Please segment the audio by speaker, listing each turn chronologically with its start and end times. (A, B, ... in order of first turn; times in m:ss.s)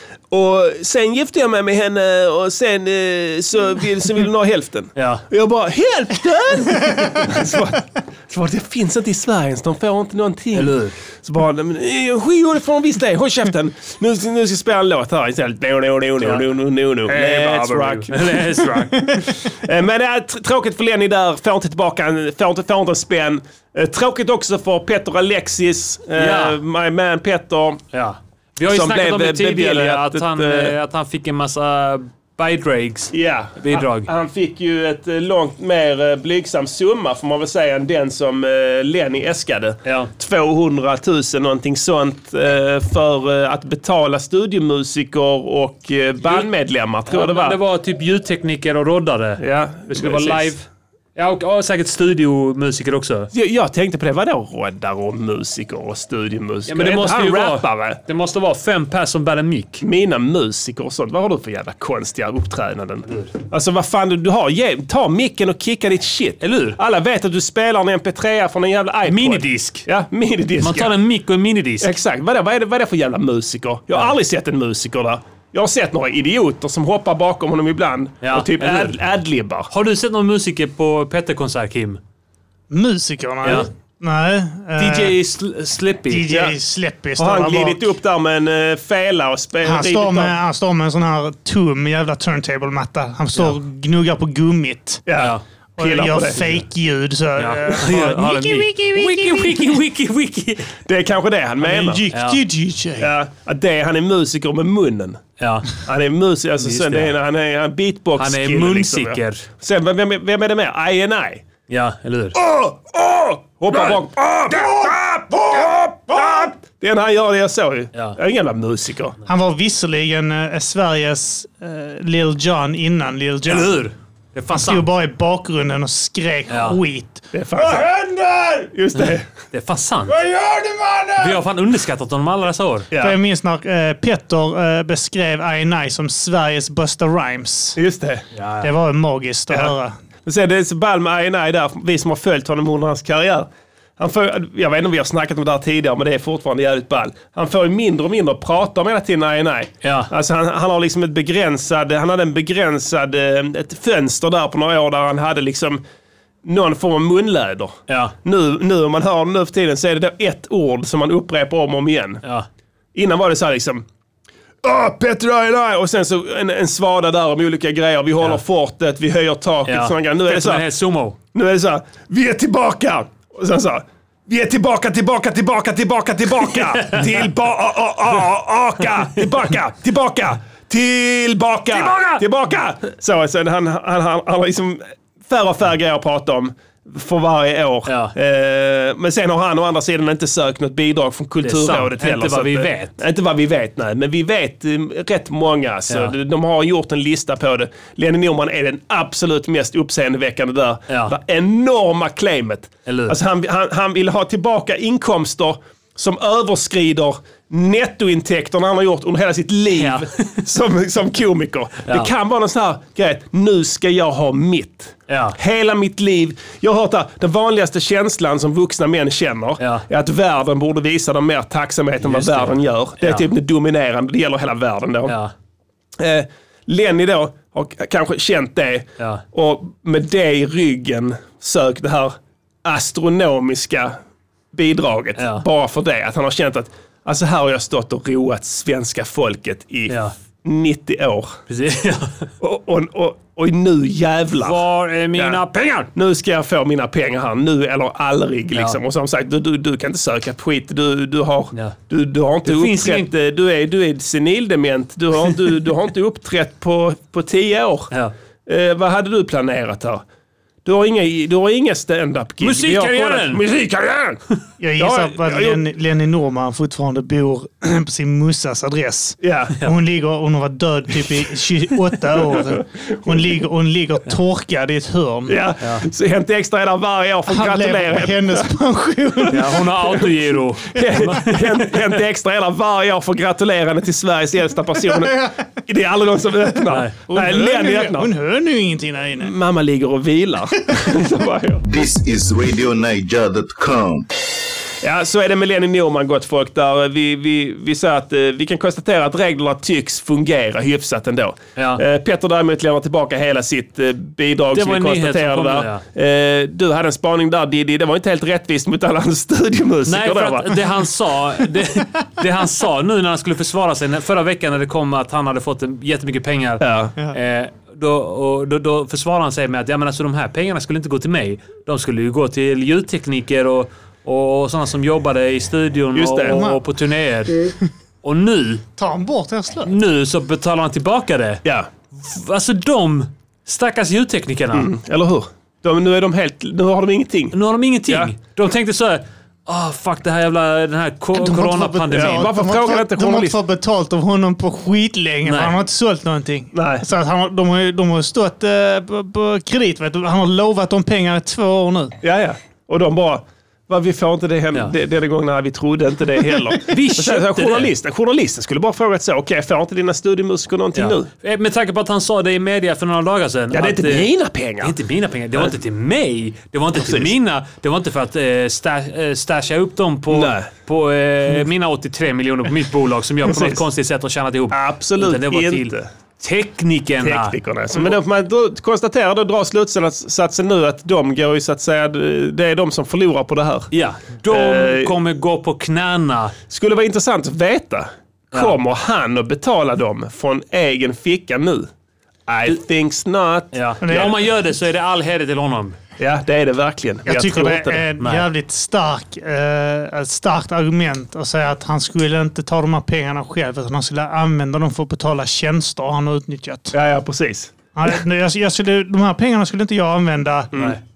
0:00.3-0:27.8 A
0:05.0-0:05.2 B
0:10.5-0:11.0 B
0:17.0-0:19.3 B
0:26.1-0:26.6 B
0:27.9-0:34.1 B
0:28.7-0:30.7 A
0:33.1-0:47.6 A
0:39.8-0:40.1 B
0:47.1-0:50.6 B
0:49.4-0:50.5 A
0:51.2-0:53.3 B
0:53.3-0:58.0 A
0:56.7-0:59.8 B
0:59.8-1:10.9 A
1:06.4-1:06.8 B
1:09.1-1:09.8 B
1:10.6-1:11.9 B
1:11.8-1:19.7 A
1:18.2-1:19.0 B
1:19.7-1:22.0 B
1:22.7-1:25.2 C
1:24.8-1:26.3 B
1:26.1-1:27.9 C
1:26.3-1:26.5 A
1:27.2-1:30.3 A
1:29.6-1:35.0 C
1:35.0-1:36.6 A
1:35.8-1:39.8 C
1:37.4-1:40.8 B
1:40.8-1:42.0 A
1:41.6-1:43.1 C
1:42.1-1:42.4 B
1:43.0-1:45.2 A
1:45.4-1:45.8 B
1:45.8-1:51.4 A
1:46.6-1:47.1 B
1:48.2-1:49.5 B
1:51.7-1:52.4 B
1:52.3-1:59.2 A
1:59.2-2:03.8 C
2:03.5-2:04.9 B
2:04.5-2:08.7 C
2:06.5-2:06.8 B
2:07.3-2:07.9 A
2:08.7-2:09.3 A
2:09.0-2:10.2 B
2:10.1-2:11.4 C
2:11.2-2:12.9 B
2:12.9-2:13.2 A
2:13.0-2:17.8 C
2:17.8-2:18.2 A
2:18.3-2:18.7 B
2:18.6-2:19.9 C
2:20.2-2:35.8 A
2:29.8-2:30.1 B
2:36.4-2:42.2 A
2:37.9-2:38.1 B
2:42.9-2:43.8 A
2:44.6-2:50.6 A
2:49.6-2:51.2 B
2:51.3-3:45.2 A
2:56.8-2:57.1 B
3:01.7-3:02.2 B
3:07.8-3:08.1 B
3:11.4-3:13.0 B
3:15.9-3:16.1 B
3:20.9-3:21.1 B
3:22.8-3:23.2 B
3:29.7-3:30.3 B
3:35.1-3:35.4 B
3:39.6-3:39.8 B
3:42.0-3:43.3 B
3:45.0-3:45.3 B
3:46.0-3:54.0 A
3:54.5-4:01.4 A
3:55.2-3:55.4 B
3:59.9-4:00.1 B
4:01.5-4:02.3 B
4:02.4-4:04.6 A
4:04.4-4:05.9 B
4:05.2-4:05.4 A
4:05.9-4:17.9 A
4:12.4-4:13.1 B
4:18.4-4:20.0 A
4:20.6-4:24.2 A
4:22.4-4:23.4 B
4:24.6-4:35.4 C
4:24.8-4:25.6 A
4:29.2-4:29.6 A
4:32.5-4:33.0 A
4:35.3-4:38.5 A
4:35.6-4:35.8 B
4:37.3-4:39.9 C
4:39.3-4:42.0 B
4:40.7-4:48.1 A
4:44.9-4:45.3 C
4:46.7-4:46.9 B
4:47.1-4:49.3 C
4:49.2-4:51.6 A
4:51.7-4:54.1 D
4:54.8-5:10.6 A
5:01.6-5:01.8 B
5:04.5-5:05.8 B
5:09.9-5:28.6 B
5:16.6-5:16.9 A
5:25.9-5:26.4 A
5:26.3-5:26.6 C
5:28.8-5:29.7 C
5:29.6-5:34.7 B
5:34.5-5:37.4 A
5:37.3-5:42.3 B
5:37.9-5:38.1 A
5:41.1-5:52.0 C
5:41.9-5:43.4 A
5:45.2-5:45.6 B
5:46.5-5:46.8 A
5:52.0-6:01.1 A
5:56.6-5:57.7 B
6:00.7-6:04.1 B
6:03.5-6:04.7 A
6:04.6-6:17.9 B
6:06.7-6:07.1 A
6:10.1-6:10.5 A
6:13.2-6:13.6 A
6:14.5-6:15.9 A
6:17.0-6:23.7 A
6:23.7-6:26.3 B
6:24.3-6:24.9 A
6:26.5-6:31.7 A
6:32.3-6:34.1 A
6:33.5-6:35.8 B
6:33.8-6:34.1 C
6:36.0-6:37.8 A
6:37.0-6:46.7 C
6:38.0-6:38.2 B
6:46.7-6:47.5 A
6:47.7-6:50.5 C